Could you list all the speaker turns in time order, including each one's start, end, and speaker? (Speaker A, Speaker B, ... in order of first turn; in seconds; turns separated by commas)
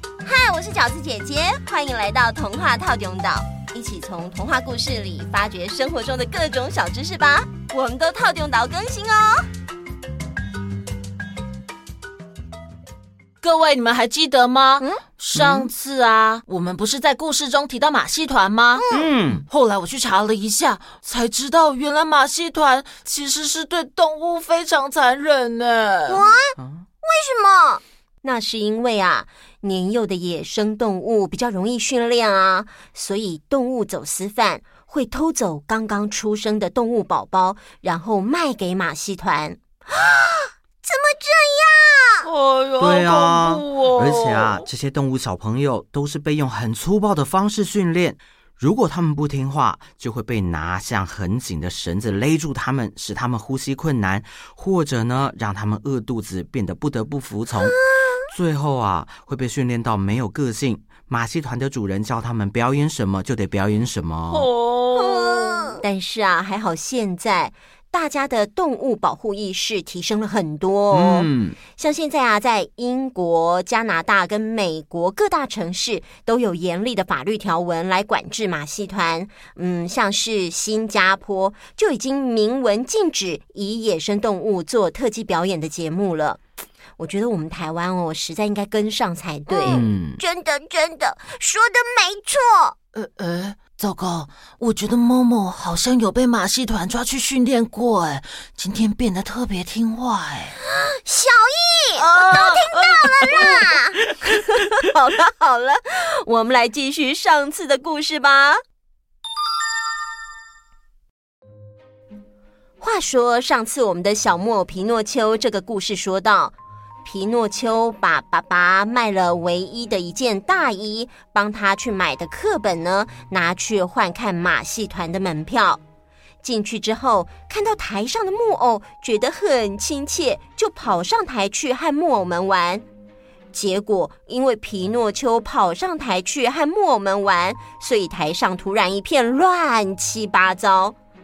Speaker A: 0.2-9.5, Speaker B: 13.4-18.8, Speaker C: 15.3-15.7, Speaker C: 18.9-19.4, Speaker B: 19.5-26.2, Speaker A: 26.1-42.3, Speaker B: 42.3-44.5, Speaker C: 42.8-57.8, Speaker A: 57.9-58.2, Speaker C: 58.3-64.5, Speaker B: 64.4-65.7, Speaker A: 65.0-86.4, Speaker C: 70.9-71.6, Speaker A: 87.0-92.8, Speaker B: 89.5-89.8, Speaker C: 89.7-90.2, Speaker B: 92.9-100.6, Speaker A: 100.7-108.6, Speaker B: 102.0-103.8, Speaker A: 112.8-116.5, Speaker A: 117.0-125.8, Speaker A: 126.4-132.8, Speaker A: 133.5-140.9